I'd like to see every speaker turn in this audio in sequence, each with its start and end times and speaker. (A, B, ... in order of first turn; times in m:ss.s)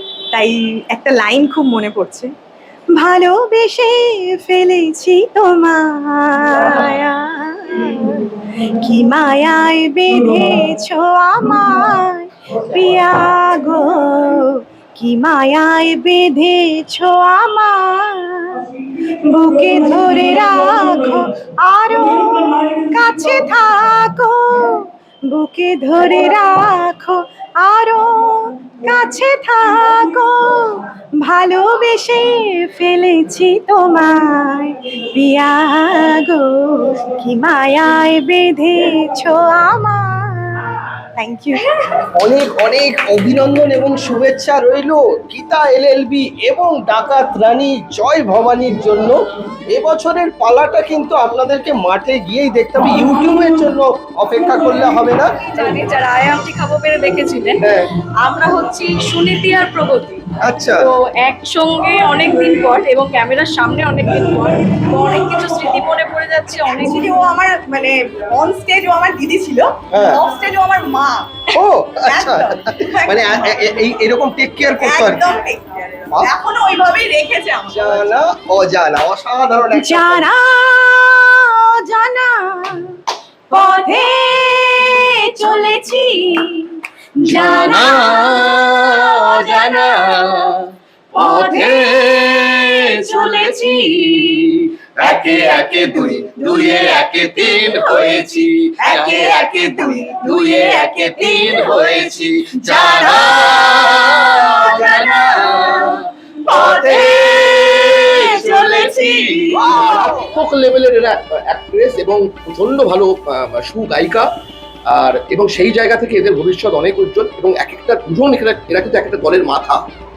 0:00.3-0:02.3 A
0:03.0-0:08.2 A
0:08.8-0:18.7 A
0:19.3-0:41.6 A
0:42.2-0:49.2 B
0:49.7-0:55.3 B
0:55.4-0:57.7 C
0:58.2-1:00.2 C
1:00.4-1:00.8 B
1:00.8-1:07.1 C
1:06.6-1:11.4 A
1:09.9-1:10.2 B
1:11.6-1:15.3 B
1:12.1-1:13.5 A
1:14.8-1:18.1 A
1:17.7-1:20.3 B
1:19.8-1:22.9 A
1:23.5-1:26.7 A
1:27.3-1:28.3 A
1:27.4-1:28.6 D
1:31.2-1:31.7 C
1:31.7-1:33.6 D
1:34.1-1:34.4 D
1:35.0-1:39.4 D
1:38.8-1:41.9 A
1:40.9-1:43.8 D
1:42.7-1:43.4 A
1:44.5-1:44.9 A
1:46.5-1:47.2 A
1:46.7-1:47.1 D
1:48.4-1:49.0 D
1:48.4-1:49.2 A
1:49.5-1:50.3 B
1:49.7-1:54.3 E
1:54.9-1:59.8 E